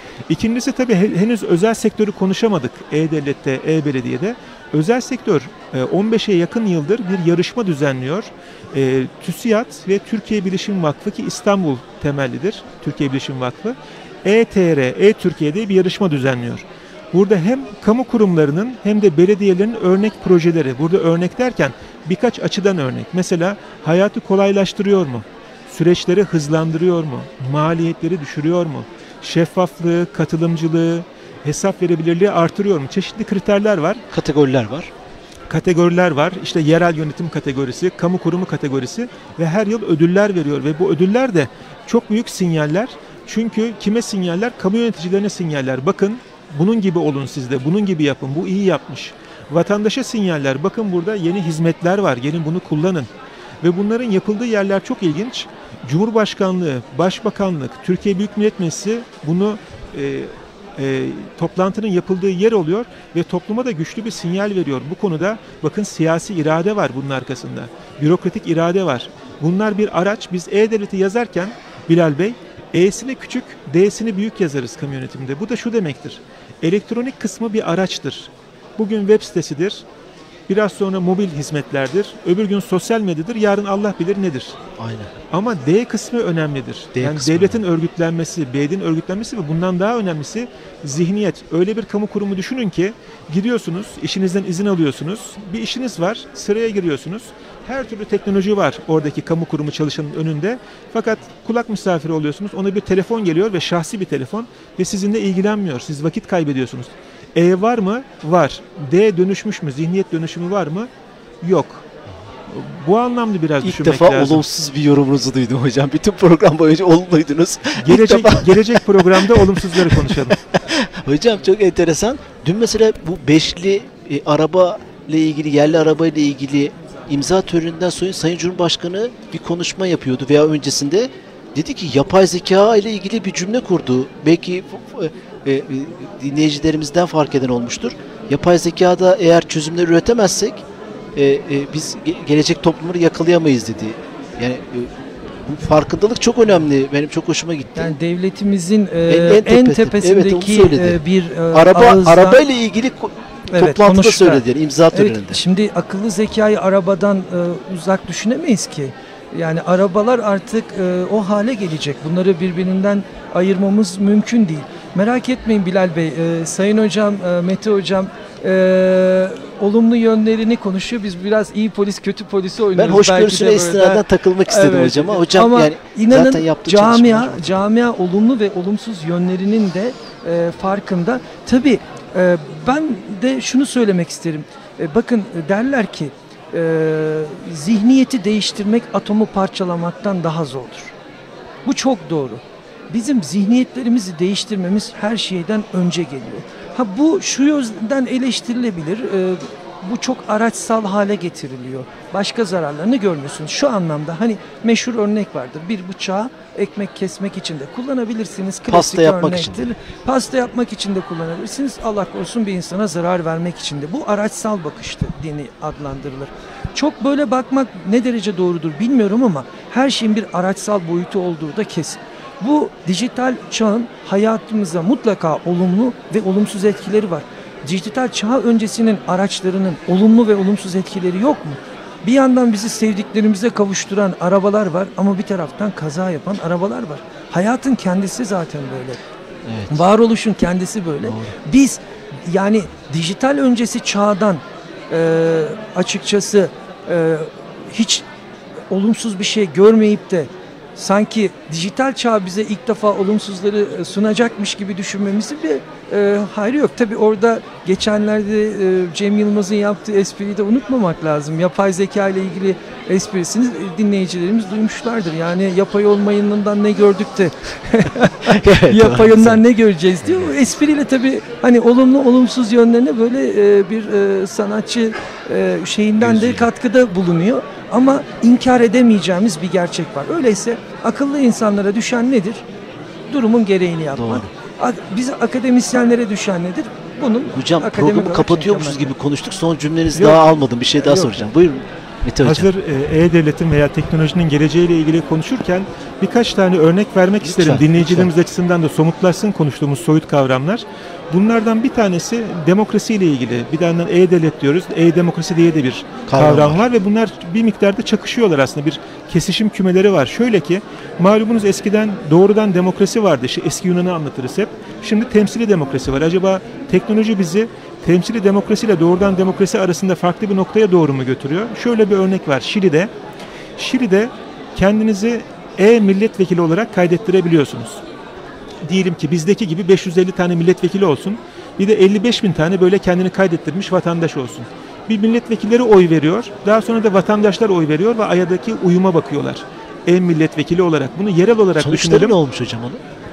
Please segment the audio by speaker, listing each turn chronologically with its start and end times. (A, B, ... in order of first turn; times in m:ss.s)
0:00.3-0:34.0 A
0:34.1-0:34.9 B
0:35.5-0:53.1 A
0:53.6-1:19.8 A
1:20.5-1:24.6 A
1:24.8-1:25.1 B
1:25.3-1:50.9 A
1:27.0-1:27.6 B
1:51.4-1:51.8 A
1:52.5-1:54.4 A
1:53.6-2:20.6 B
1:57.8-2:00.4 A
2:21.2-2:24.9 B
2:25.4-2:28.0 B
2:27.8-2:32.4 C
2:29.1-2:35.4 B
2:33.5-3:10.9 C
2:52.7-2:57.6 B
3:11.6-3:59.0 C
3:28.7-3:29.7 B
3:59.4-3:59.8 B
3:59.7-4:08.1 C
4:01.0-4:01.3 B
4:08.7-4:42.4 C
4:28.3-4:29.4 B
4:36.0-4:36.5 B
4:43.1-4:48.9 C
4:44.0-4:44.3 B
4:47.3-4:52.5 B
4:50.0-4:51.3 A
4:52.2-5:22.9 A
4:57.2-4:58.1 B
5:06.1-5:06.7 B
5:23.6-5:27.8 A
5:28.6-5:42.2 A
5:41.6-5:42.8 B